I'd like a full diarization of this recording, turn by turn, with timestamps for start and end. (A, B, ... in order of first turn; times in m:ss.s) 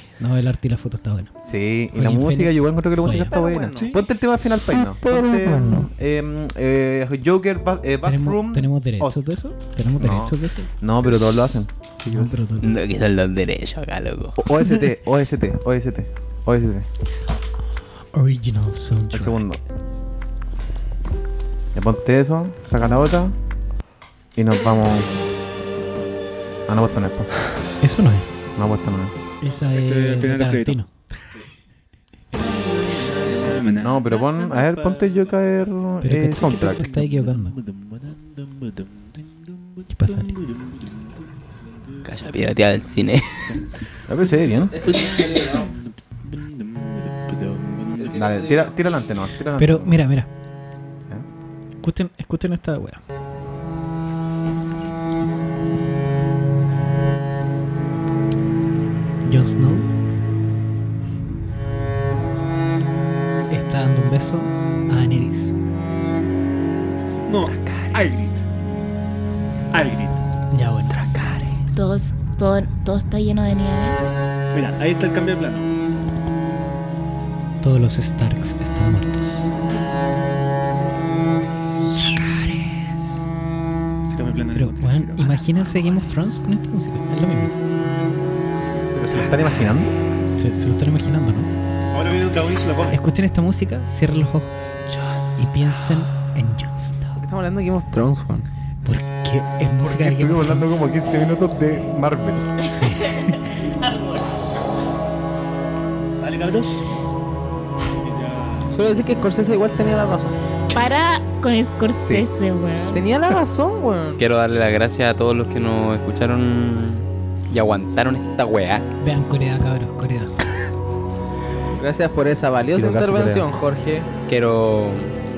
0:00.2-0:01.4 A
0:01.4-0:09.2 B
0:01.9-0:03.4 A
0:03.0-0:04.0 C
0:03.8-0:04.0 D
0:04.8-0:05.8 C
0:08.0-0:10.7 A
0:10.0-0:12.3 B
0:12.0-0:12.8 A
0:12.6-0:14.4 E
0:14.4-0:16.9 B
0:18.1-0:19.6 A
0:19.1-0:19.6 B
0:21.7-0:23.3 B
0:24.4-0:25.1 B
0:26.7-0:27.3 B
0:27.8-0:28.3 A
0:28.6-0:29.1 B
0:29.4-0:30.9 A
0:29.4-0:30.8 D
0:32.4-0:35.4 D
0:33.8-0:36.8 B
0:36.0-0:37.6 A
0:36.7-0:41.2 D
0:39.9-0:40.4 A
0:42.0-0:43.6 E
0:44.1-0:44.9 B
0:44.7-0:45.7 C
0:44.9-0:48.1 D
0:48.0-0:48.9 C
0:48.1-0:50.0 B
0:49.6-0:50.3 A
0:51.8-0:53.0 A
0:59.2-0:59.9 A
1:03.5-1:05.5 A
1:07.2-1:08.4 D
1:07.5-1:07.8 E
1:09.7-1:10.2 D
1:10.5-1:11.5 A
1:11.7-1:14.0 F
1:14.5-1:15.7 D
1:17.6-1:19.4 A
1:24.1-1:25.5 D
1:24.5-1:27.6 A
1:28.9-1:29.9 B
1:30.3-1:31.5 A
1:31.9-1:33.0 D
1:32.9-1:34.5 A
1:35.4-1:37.2 A
1:37.2-1:38.4 C
1:38.8-1:40.8 A
1:39.8-1:42.5 B
1:42.6-1:43.3 A
1:43.0-1:44.4 F
1:46.2-1:46.8 D
1:47.9-1:48.7 D
1:48.7-1:50.4 C
1:50.7-1:53.0 F
1:52.0-1:52.3 B
1:52.9-1:54.2 C
1:54.2-1:58.9 E
1:59.0-2:00.3 A
2:01.7-2:04.1 C
2:02.7-2:03.5 B
2:04.3-2:05.1 E